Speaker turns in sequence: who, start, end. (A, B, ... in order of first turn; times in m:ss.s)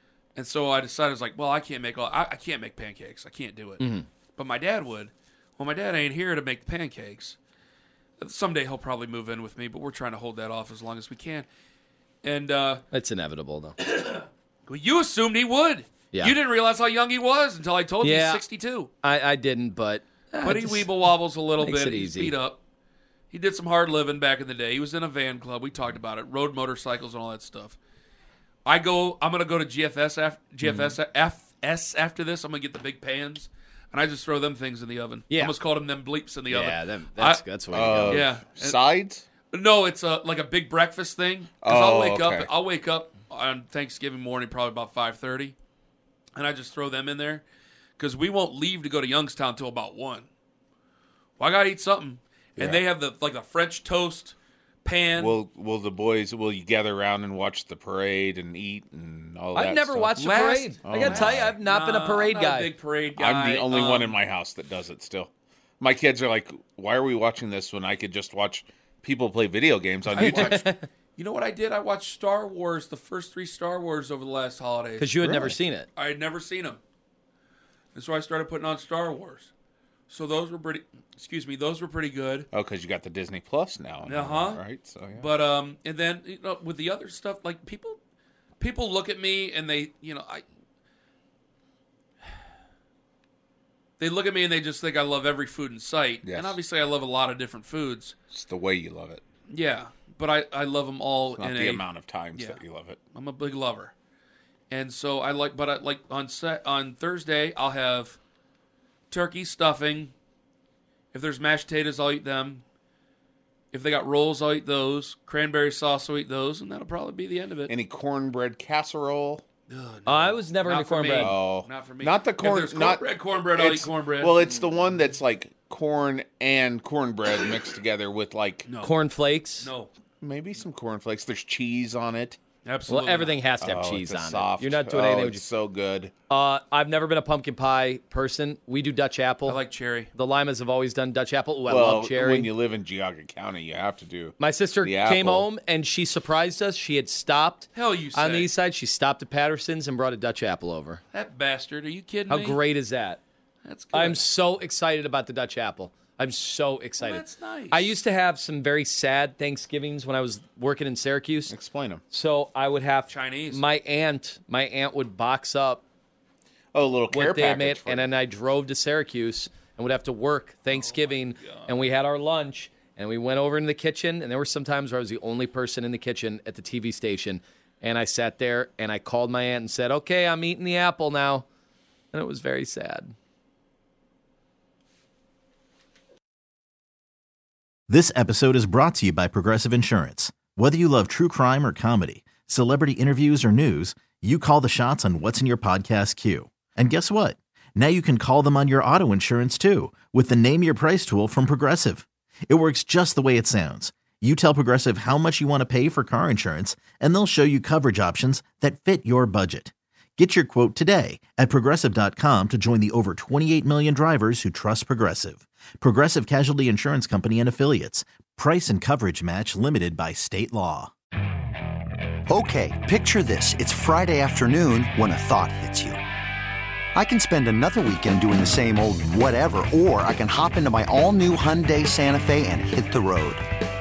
0:00.3-0:03.8 A
0:03.8-0:04.1 B
0:04.4-0:07.4 A
0:08.2-0:11.5 A
0:12.2-0:12.8 A
0:12.9-0:13.8 B
0:13.9-0:18.9 A
0:18.0-0:18.4 B
0:19.0-0:20.9 B
0:20.4-0:22.6 A
0:21.6-0:22.3 B
0:23.3-0:27.8 A
0:28.6-0:37.4 A
0:30.6-0:31.0 B
0:35.3-0:35.5 B
0:36.5-0:38.2 B
0:37.7-0:39.3 C
0:38.1-0:38.8 A
0:39.5-0:45.5 A
0:41.6-0:42.5 C
0:46.3-0:47.4 A
0:48.0-0:50.3 A
0:51.4-0:55.4 A
0:55.2-1:00.1 C
0:59.5-1:02.7 B
1:00.2-1:04.2 A
1:00.8-1:01.5 C
1:03.2-1:10.6 C
1:10.1-1:10.8 B
1:10.1-1:15.3 A
1:15.0-1:15.9 B
1:15.2-1:15.5 C
1:16.0-1:16.8 A
1:17.9-1:19.5 A
1:20.1-1:22.5 A
1:22.5-1:25.3 C
1:24.0-1:24.6 A
1:25.1-1:28.0 A
1:28.6-1:30.4 A
1:34.0-1:38.1 A
1:36.2-1:36.6 C
1:38.3-1:39.2 C
1:39.5-1:42.6 A
1:41.4-1:43.0 C
1:43.1-1:43.9 A
1:44.7-1:48.2 A
1:49.1-1:50.1 A
1:51.1-1:52.6 A
1:53.7-1:57.7 A
1:57.7-1:59.4 C
1:59.7-2:04.4 A
2:00.1-2:01.3 B
2:01.2-2:03.0 C
2:03.5-2:08.7 C
2:08.7-2:08.9 A
2:08.8-2:09.7 B
2:09.6-2:09.9 A
2:10.2-2:12.4 C
2:12.6-2:13.4 A
2:12.9-2:15.4 B
2:13.6-2:16.1 C
2:16.3-2:19.6 B
2:19.5-2:20.1 A
2:20.1-2:22.5 B
2:21.7-2:25.5 C
2:24.4-2:31.0 B
2:27.7-2:28.5 A
2:31.1-2:32.6 A
2:32.3-2:33.2 B
2:33.6-2:34.2 A
2:33.9-2:41.5 B
2:37.0-2:38.0 A
2:41.5-2:42.0 C
2:42.1-2:45.8 B
2:43.1-2:43.6 A
2:46.7-2:48.1 C
2:47.1-3:01.4 B
2:50.7-2:51.7 A
3:02.1-3:03.1 B
3:07.9-3:40.9 D
3:42.3-3:46.0 E
3:46.9-3:53.4 E